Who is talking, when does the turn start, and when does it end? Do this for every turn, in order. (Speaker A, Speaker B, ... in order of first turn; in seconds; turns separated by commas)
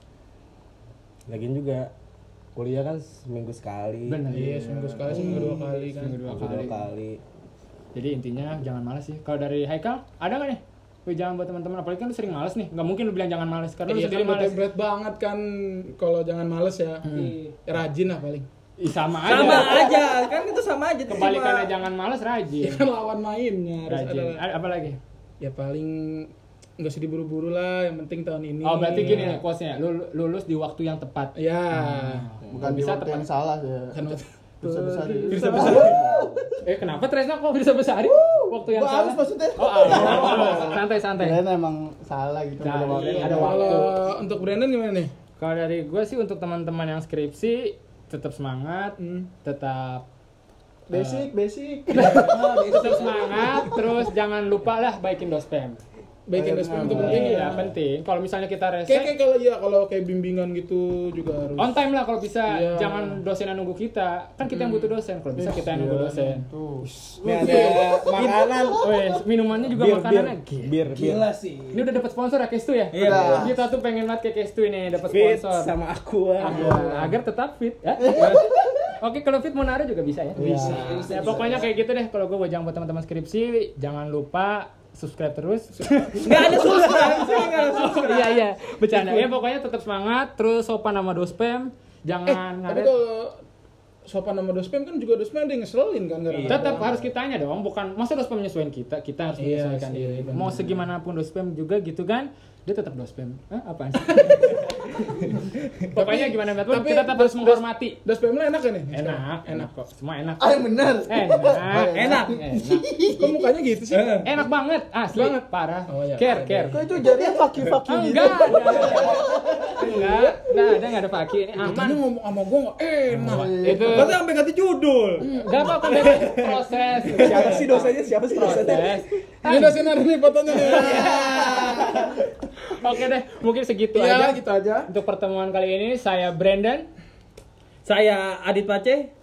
Speaker A: 1.3-1.9, Speaker A: 2.5-4.3, Speaker B: 4.1-4.5, Speaker C: 4.3-6.2, Speaker D: 4.3-5.1, Speaker A: 5.1-5.6, Speaker B: 5.1-6.8, Speaker A: 6.2-7.2, Speaker B: 7.9-14.6, Speaker C: 13.8-18.4, Speaker B: 17.1-17.3, Speaker B: 18.8-19.9, Speaker E: 19.2-21.7, Speaker C: 19.3-19.8, Speaker B: 21.1-22.9, Speaker C: 22.6-24.4, Speaker B: 23.9-25.0, Speaker C: 25.4-29.4, Speaker B: 28.6-33.2, Speaker C: 31.3-32.3, Speaker D: 32.5-36.4, Speaker C: 33.9-34.2, Speaker F: 34.7-36.5, Speaker C: 35.3-36.0, Speaker E: 35.6-35.8, Speaker B: 36.6-41.4, Speaker F: 38.1-40.8, Speaker D: 39.9-43.9, Speaker B: 42.6-44.0, Speaker E: 42.9-43.4, Speaker C: 43.3-45.1, Speaker B: 45.4-50.0, Speaker C: 49.0-49.3, Speaker D: 50.9-52.5, Speaker B: 50.9-51.3, Speaker B: 51.9-55.8, Speaker F: 52.3-53.3, Speaker C: 56.3-57.6, Speaker D: 56.3-57.6, Speaker B: 56.8-59.1, Speaker C: 58.9-61.8, Speaker B: 61.6-66.5, Speaker C: 62.5-63.2, Speaker C: 64.5-64.9, Speaker D: 65.3-66.9, Speaker A: 67.2-68.9, Speaker C: 67.4-67.9, Speaker B: 68.8-70.7, Speaker A: 69.7-71.4, Speaker F: 70.9-71.8, Speaker B: 71.7-75.7, Speaker E: 72.9-73.5, Speaker D: 73.0-73.6, Speaker A: 73.0-73.5, Speaker A: 75.1-77.1, Speaker B: 76.4-93.0, Speaker D: 76.4-76.9, Speaker D: 78.0-78.7, Speaker D: 80.3-81.2, Speaker F: 80.6-81.7, Speaker C: 85.8-86.2, Speaker E: 86.2-89.2, Speaker C: 92.3-93.4, Speaker C: 94.0-96.9, Speaker E: 96.3-96.6, Speaker B: 96.5-104.7, Speaker A: 96.6-97.0, Speaker C: 99.4-100.8, Speaker C: 104.1-104.7, Speaker B: 105.9-108.0, Speaker C: 106.0-109.7, Speaker B: 108.9-112.8, Speaker D: 110.4-113.4, Speaker E: 111.9-112.3, Speaker C: 113.1-114.3, Speaker E: 113.9-114.3, Speaker B: 114.2-116.8, Speaker C: 115.1-117.0, Speaker D: 116.7-120.0, Speaker F: 117.1-117.4, Speaker B: 117.8-122.0, Speaker F: 119.0-119.9, Speaker C: 121.6-123.7, Speaker B: 123.1-124.1, Speaker D: 123.2-124.1, Speaker E: 123.9-126.6, Speaker B: 125.2-129.8, Speaker C: 125.3-125.6, Speaker E: 127.1-127.4, Speaker A: 127.1-129.0, Speaker C: 129.4-132.0, Speaker A: 130.7-131.2, Speaker B: 132.7-136.9, Speaker C: 133.9-134.9, Speaker E: 137.8-139.1